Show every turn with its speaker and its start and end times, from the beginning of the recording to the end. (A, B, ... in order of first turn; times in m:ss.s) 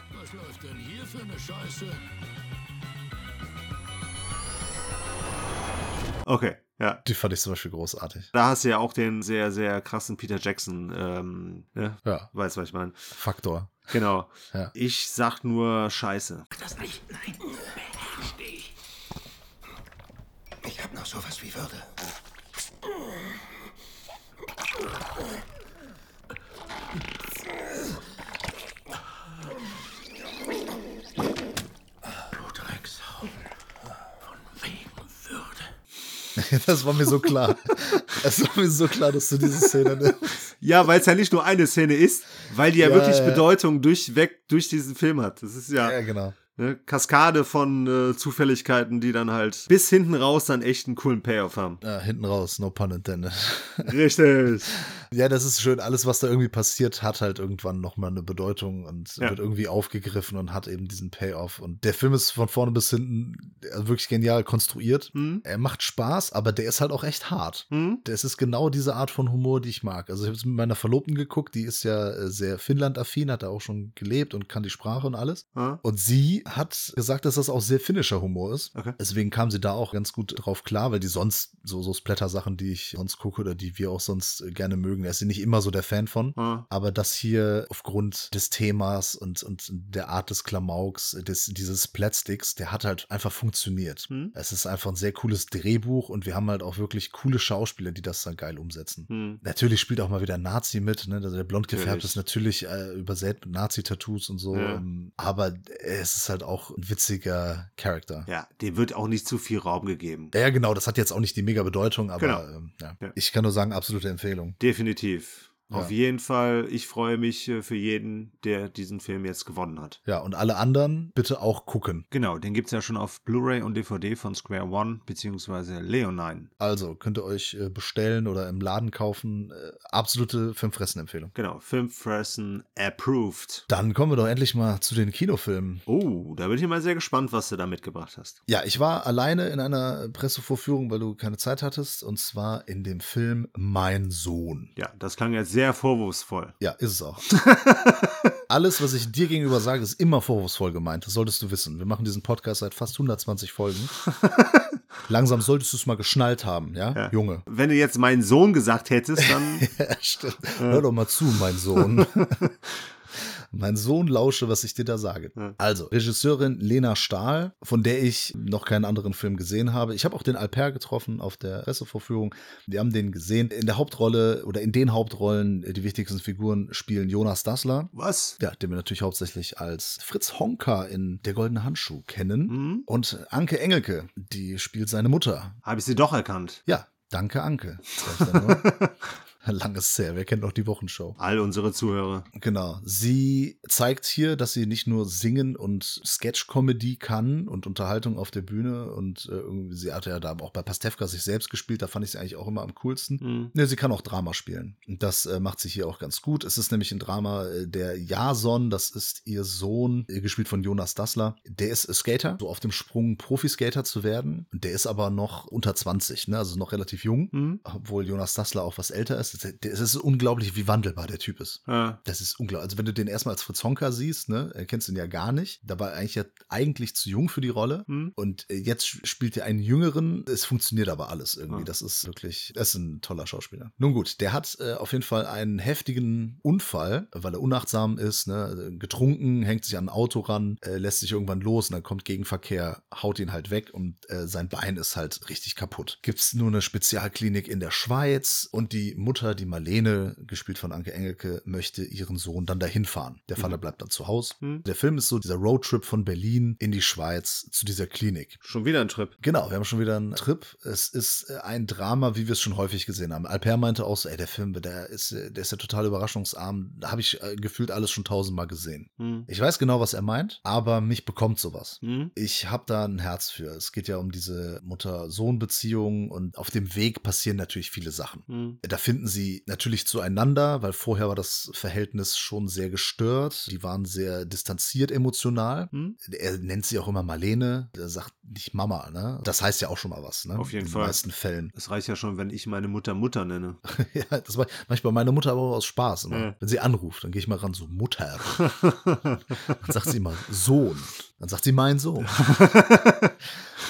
0:00.3-0:01.8 A
0:06.2-0:07.0 A
0:07.0-0:08.3 B
0:08.3-0:13.1 A
0:12.0-0:12.3 B
0:13.1-0:13.9 B
0:13.9-0:16.5 A
0:16.6-0:18.5 C
0:20.6-0:21.9 C
0:32.3-0:33.3 C
0:34.5-0:35.6 C
0:36.4-0:40.5 B
0:37.8-0:38.2 A
0:39.6-0:39.9 A
0:40.6-0:46.0 A
0:42.8-0:43.4 B
0:45.8-0:46.4 B
0:46.6-0:51.8 A
0:51.8-0:54.0 B
0:53.8-0:54.8 A
0:54.7-1:48.3 B
1:05.1-1:05.4 A
1:07.7-1:08.0 A
1:15.6-1:15.8 A
1:26.4-1:26.7 A
1:34.1-1:34.3 A
1:39.1-1:39.4 A
1:41.7-1:42.2 A
1:44.5-1:44.8 A
1:48.3-1:50.3 A
1:50.3-1:54.6 B
1:52.2-1:52.4 A
1:54.6-2:00.0 A
2:00.1-2:02.1 B
2:02.1-2:06.5 A
2:06.6-2:11.3 B
2:11.4-2:13.7 A
2:13.7-2:15.8 B
2:15.9-2:18.4 A
2:18.5-2:24.7 B
2:24.8-2:26.6 A
2:26.6-2:27.3 B
2:27.3-2:28.4 A
2:28.5-2:33.9 B
2:34.2-2:34.6 A
2:35.0-2:37.4 B
2:36.9-2:39.7 A
2:39.2-2:42.5 B
2:40.6-2:40.8 A
2:42.0-2:42.5 A
2:43.4-3:05.6 B
2:57.9-2:58.4 A
3:02.5-3:02.9 A
3:05.6-3:06.6 A
3:06.7-3:08.8 B
3:08.1-3:09.0 A
3:09.4-3:11.2 B
3:11.2-3:12.3 A
3:12.4-4:18.4 B
3:23.2-3:23.5 A
3:37.3-3:37.6 A
3:41.7-3:42.0 A
3:47.9-3:48.1 A
4:18.4-4:19.1 A
4:19.2-4:51.5 B
4:29.0-4:29.3 A
4:31.8-4:32.1 A
4:38.3-4:38.6 A
4:45.7-4:46.0 A
4:50.4-4:51.0 A
4:51.5-4:53.6 A
4:53.7-4:58.4 B
4:58.4-4:59.6 A
4:59.6-5:02.3 B
5:02.1-5:03.1 A